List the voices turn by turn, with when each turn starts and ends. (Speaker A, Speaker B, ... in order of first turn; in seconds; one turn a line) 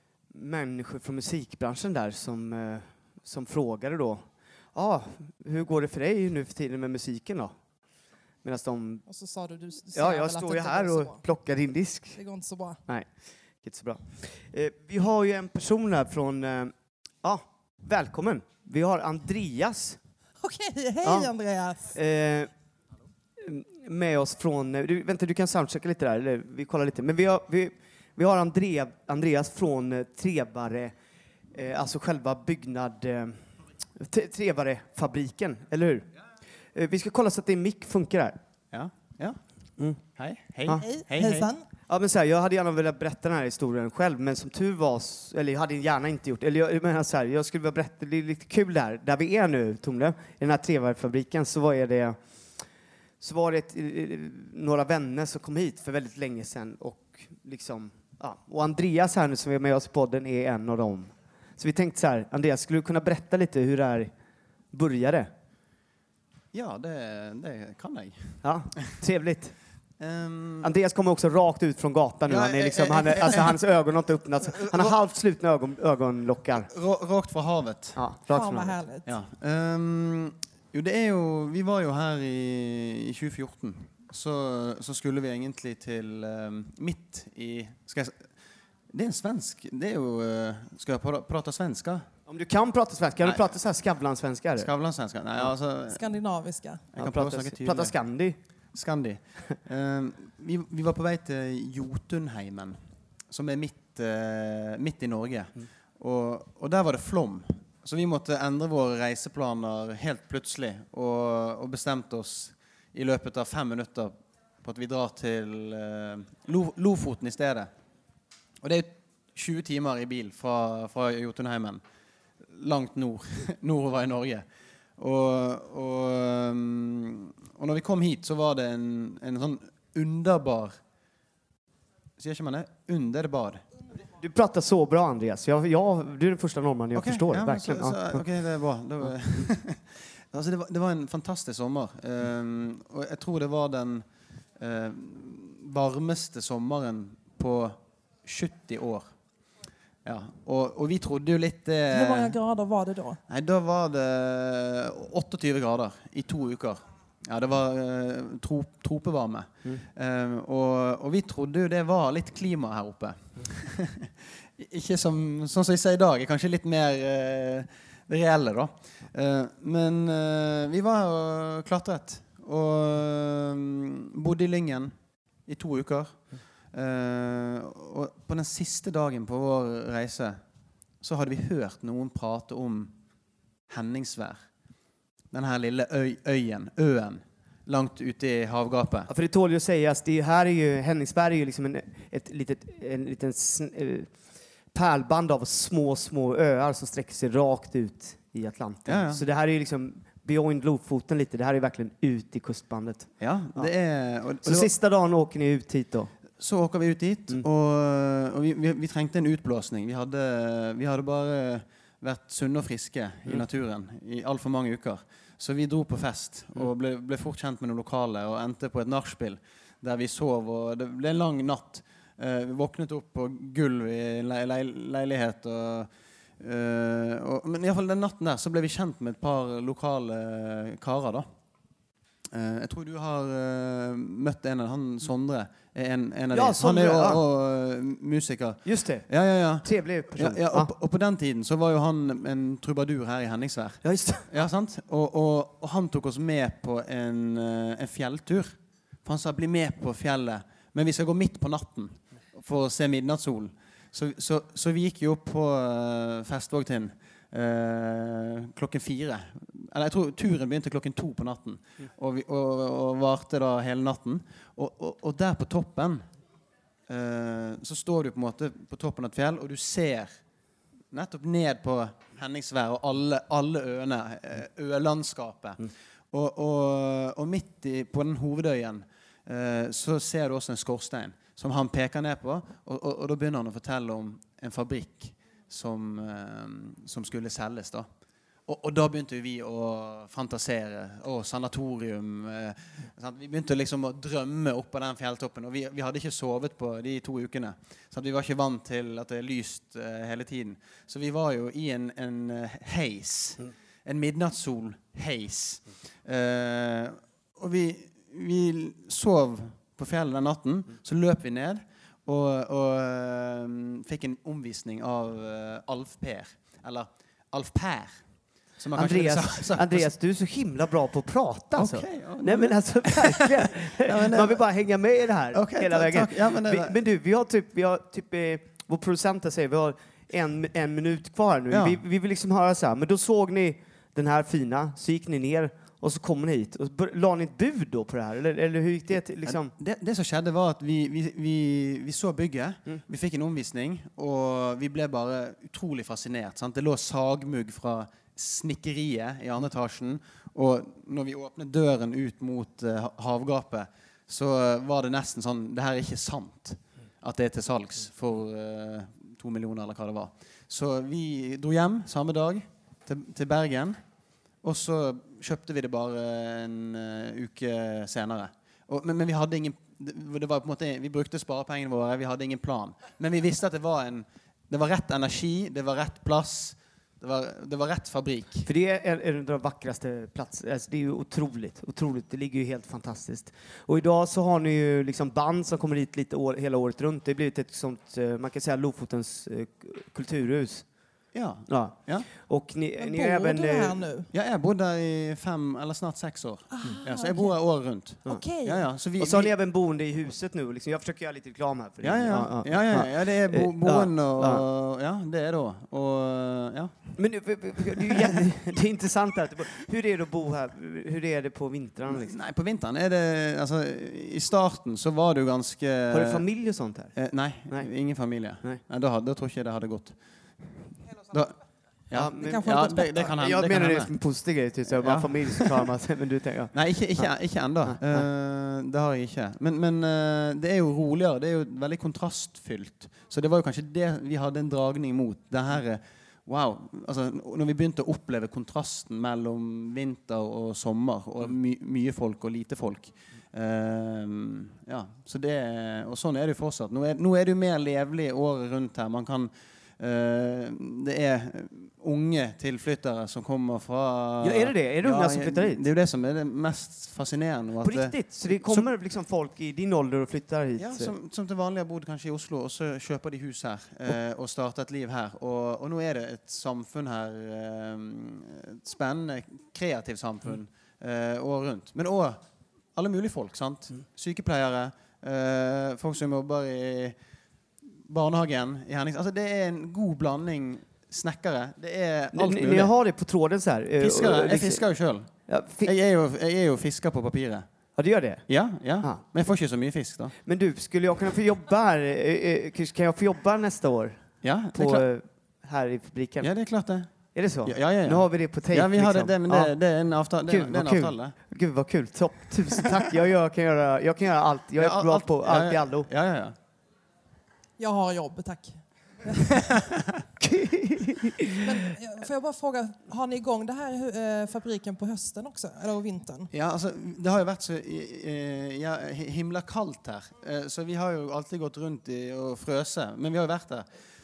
Speaker A: 0.3-7.5
Speaker A: 8.4-9.1
Speaker B: 9.1-11.2
Speaker A: 9.9-12.2
Speaker B: 12.2-12.8
Speaker A: 13.6-20.0
Speaker B: 20.4-21.9
Speaker A: 21.0-21.3
Speaker A: 21.9-22.5
Speaker A: 23.4-30.9
Speaker A: 31.5-33.4
Speaker A: 34.0-36.1
Speaker A: 36.7-38.4
Speaker C: 38.7-39.4
Speaker C: 40.2-41.5
Speaker B: 40.8-41.7
Speaker A: 41.9-52.2
Speaker A: 53.2-64.1
Speaker A: 64.7-65.3
Speaker C: 66.5-68.4
Speaker A: 68.4-69.5
Speaker C: 70.0-70.7
Speaker A: 70.6-76.7
Speaker C: 72.3-73.6
Speaker C: 74.5-75.0
Speaker C: 76.7-78.0
Speaker A: 78.0-78.8
Speaker B: 78.3-79.1
Speaker C: 79.1-88.2
Speaker C: 88.9-92.1
Speaker A: 92.3-94.7
Speaker C: 94.6-96.1
Speaker B: 95.9-96.8
Speaker C: 96.9-97.9
Speaker A: 97.0-98.4
Speaker C: 98.7-102.8
Speaker C: 103.3-117.7
Speaker C: 118.6-121.8
Speaker C: 122.5-124.4
Speaker C: 125.0-130.8
Speaker C: 132.2-133.6
Speaker A: 134.2-138.3
Speaker C: 136.9-144.1
Speaker C: 144.6-149.1
Speaker C: 150.1-152.4
Speaker B: 151.9-153.2
Speaker C: 153.3-174.9
Speaker C: 175.5-176.2
Speaker C: 176.7-180.4
Speaker C: 181.0-182.9
Speaker C: 183.7-184.4
Speaker C: 185.3-189.1
Speaker A: 189.1-194.1
Speaker A: 194.7-203.7
Speaker C: 198.9-199.2
Speaker C: 203.2-204.7
Speaker A: 204.4-206.1
Speaker C: 206.4-225.9
Speaker C: 226.4-231.3
Speaker C: 232.3-266.0
Speaker A: 236.3-237.2
Speaker A: 238.7-239.1
Speaker A: 239.6-240.7
Speaker A: 243.8-244.3
Speaker C: 266.9-270.1
Speaker C: 270.9-287.9
Speaker C: 288.5-318.0
Speaker C: 318.6-319.9
Speaker A: 318.8-339.5
Speaker C: 321.6-324.4
Speaker C: 325.3-326.8
Speaker C: 331.5-331.8
Speaker C: 339.3-363.8
Speaker C: 364.4-378.5
Speaker A: 378.5-390.6
Speaker C: 391.1-392.1
Speaker A: 391.5-393.8
Speaker B: 392.8-394.1
Speaker C: 394.1-399.3
Speaker B: 396.5-397.3
Speaker B: 398.1-398.6
Speaker A: 399.0-404.4
Speaker C: 401.8-406.9
Speaker A: 407.0-412.1
Speaker C: 407.8-408.1
Speaker C: 411.9-416.2
Speaker A: 415.9-416.9
Speaker C: 417.0-421.3
Speaker C: 421.9-423.9
Speaker A: 421.9-427.1
Speaker B: 422.2-423.1
Speaker C: 424.8-425.7
Speaker C: 426.5-458.7
Speaker A: 427.7-428.1
Speaker A: 454.2-455.6
Speaker A: 457.6-460.9
Speaker C: 460.6-472.2
Speaker C: 472.8-476.9
Speaker C: 477.9-482.7
Speaker A: 482.1-484.6
Speaker C: 483.8-485.1
Speaker A: 485.3-485.7
Speaker C: 485.6-487.5
Speaker A: 487.8-488.2
Speaker C: 488.3-490.1
Speaker A: 490.2-494.0
Speaker C: 494.2-494.9
Speaker A: 494.5-496.3
Speaker C: 496.2-496.9
Speaker A: 497.1-499.5
Speaker C: 497.4-501.1
Speaker A: 500.3-505.9
Speaker C: 504.6-506.4
Speaker B: 507.6-509.5
Speaker C: 509.5-510.0
Speaker A: 510.2-511.4
Speaker B: 511.4-516.3
Speaker C: 516.3-523.6